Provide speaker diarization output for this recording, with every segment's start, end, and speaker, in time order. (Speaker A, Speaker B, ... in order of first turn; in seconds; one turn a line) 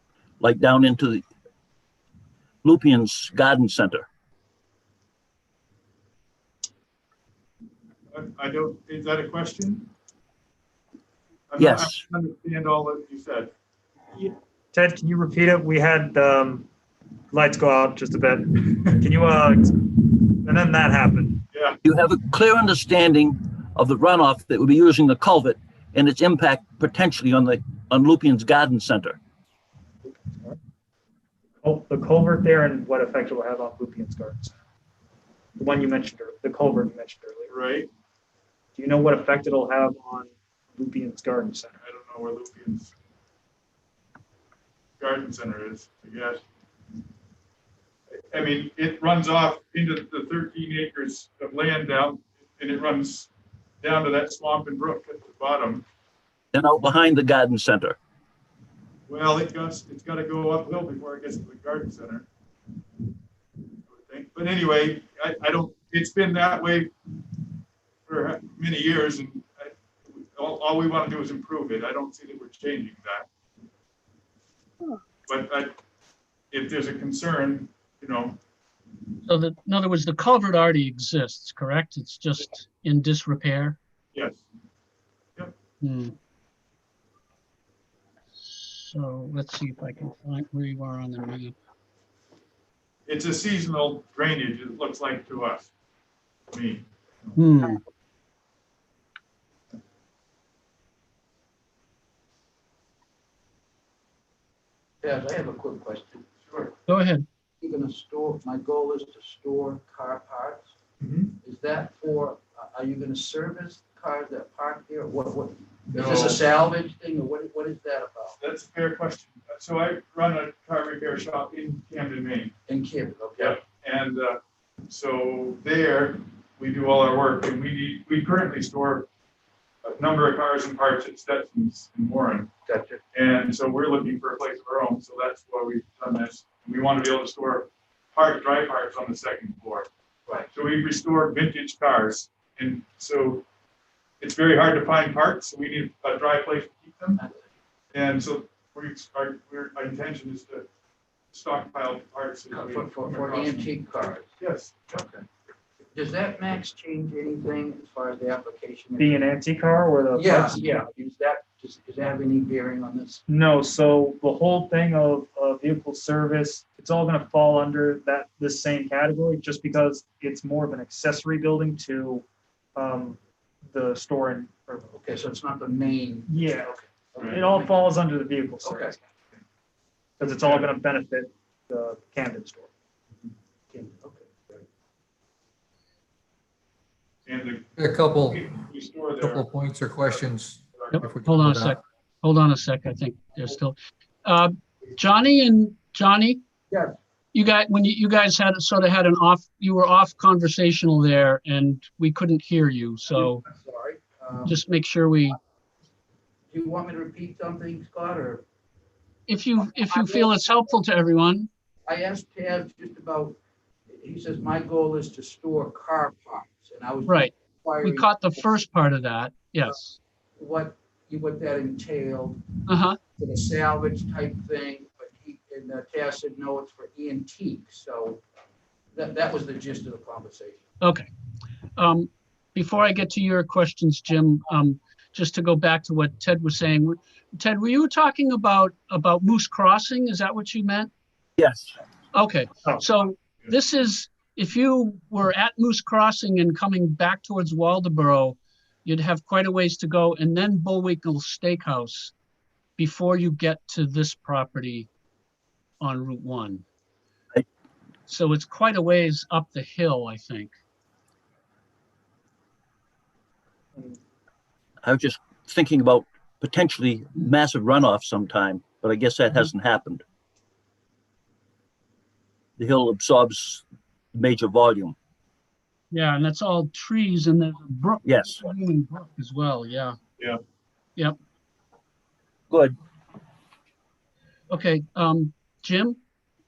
Speaker A: 0.4-1.2
Speaker A: 2.6-4.1
Speaker B: 8.1-9.9
Speaker B: 11.5-13.5
Speaker A: 11.6-12.0
Speaker C: 14.2-16.7
Speaker C: 17.3-21.4
Speaker B: 21.5-21.8
Speaker A: 21.8-29.2
Speaker C: 30.1-30.6
Speaker C: 31.6-34.5
Speaker C: 35.6-37.5
Speaker B: 37.5-37.9
Speaker C: 38.7-41.8
Speaker B: 41.8-42.9
Speaker B: 45.0-46.4
Speaker B: 48.3-53.3
Speaker B: 53.8-55.9
Speaker A: 56.5-58.0
Speaker B: 59.1-62.3
Speaker B: 63.9-66.9
Speaker B: 68.0-73.3
Speaker B: 75.3-75.7
Speaker B: 76.5-78.4
Speaker D: 79.2-83.8
Speaker B: 84.1-84.4
Speaker D: 85.8-86.1
Speaker D: 88.7-91.5
Speaker B: 93.1-95.7
Speaker B: 96.5-97.4
Speaker D: 97.3-97.8
Speaker E: 105.0-106.2
Speaker B: 106.4-106.7
Speaker D: 106.9-107.2
Speaker E: 107.6-110.7
Speaker B: 111.0-111.3
Speaker E: 111.4-118.4
Speaker B: 115.9-116.4
Speaker B: 118.4-122.5
Speaker E: 122.7-123.6
Speaker B: 123.4-129.1
Speaker B: 129.8-132.5
Speaker E: 132.7-133.0
Speaker B: 133.1-139.9
Speaker B: 140.5-143.4
Speaker B: 144.2-147.2
Speaker B: 147.9-150.7
Speaker B: 151.3-153.7
Speaker E: 152.5-154.3
Speaker B: 154.4-155.1
Speaker E: 154.9-155.2
Speaker E: 155.9-159.2
Speaker C: 159.0-160.6
Speaker E: 160.1-163.2
Speaker C: 163.3-174.9
Speaker E: 174.9-177.9
Speaker C: 176.3-176.7
Speaker B: 177.2-177.5
Speaker C: 177.3-179.0
Speaker E: 178.6-178.9
Speaker C: 180.2-182.7
Speaker B: 180.2-180.7
Speaker E: 183.7-184.6
Speaker B: 187.2-189.4
Speaker F: 187.8-188.5
Speaker F: 189.2-191.8
Speaker B: 190.8-191.0
Speaker D: 190.9-196.4
Speaker E: 196.7-196.9
Speaker D: 197.3-203.4
Speaker E: 203.1-204.6
Speaker D: 204.4-205.4
Speaker E: 206.5-208.4
Speaker D: 209.3-211.5
Speaker E: 209.6-210.7
Speaker E: 211.8-213.4
Speaker E: 213.9-218.5
Speaker D: 217.1-219.9
Speaker E: 220.4-222.4
Speaker D: 222.7-223.0
Speaker E: 223.2-228.2
Speaker E: 228.9-230.6
Speaker D: 230.8-231.1
Speaker D: 231.8-240.9
Speaker A: 241.4-241.7
Speaker D: 242.1-252.1
Speaker D: 252.8-254.9
Speaker D: 255.8-256.6
Speaker D: 258.1-260.5
Speaker A: 264.8-270.0
Speaker A: 272.6-273.6
Speaker A: 274.1-274.9
Speaker D: 275.9-280.0
Speaker A: 278.0-278.4
Speaker A: 282.5-282.8
Speaker D: 284.5-286.0